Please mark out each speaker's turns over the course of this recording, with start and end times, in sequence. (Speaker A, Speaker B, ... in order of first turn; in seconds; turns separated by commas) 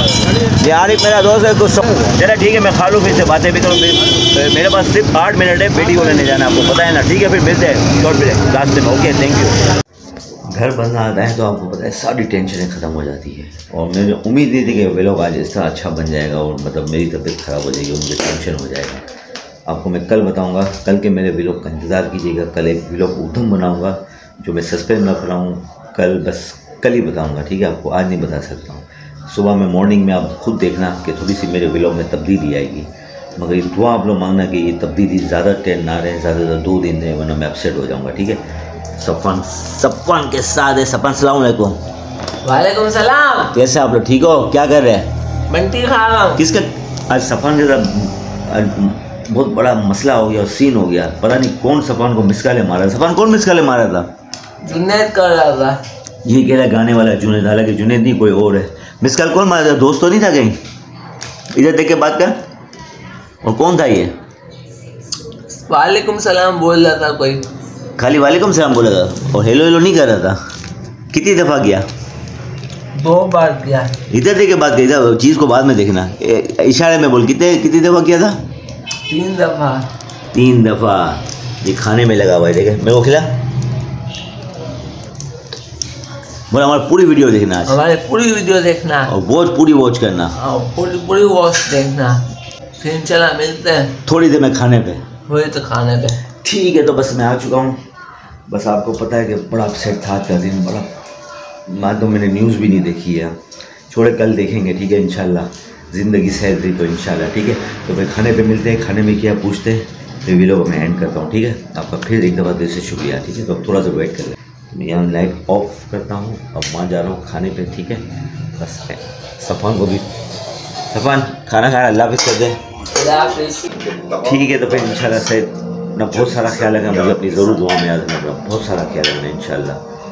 Speaker A: 0.5-9.6, Speaker A: 10.5-19.0, Speaker A: 19.7-38.4, Speaker A: 38.9-41.8, Speaker B: 42.4-43.5, Speaker A: 43.5-45.1, Speaker B: 45.5-46.4, Speaker A: 46.4-54.1, Speaker B: 54.6-55.8, Speaker A: 56.2-60.6, Speaker A: 61.5-62.4, Speaker A: 63.4-64.1, Speaker B: 65.5-67.5, Speaker A: 68.0-70.4, Speaker A: 71.1-71.9, Speaker B: 72.9-73.9, Speaker A: 74.1-78.4, Speaker B: 79.1-79.9, Speaker A: 80.3-83.3, Speaker A: 86.5-87.8, Speaker B: 87.7-89.1, Speaker A: 89.1-90.3, Speaker B: 90.3-92.3, Speaker B: 92.8-94.0, Speaker A: 94.0-95.0, Speaker B: 95.3-96.2, Speaker A: 96.4-97.8, Speaker A: 98.5-100.9, Speaker A: 101.7-103.3, Speaker A: 103.9-120.0, Speaker A: 120.9-122.6, Speaker B: 122.9-123.7, Speaker A: 124.1-129.8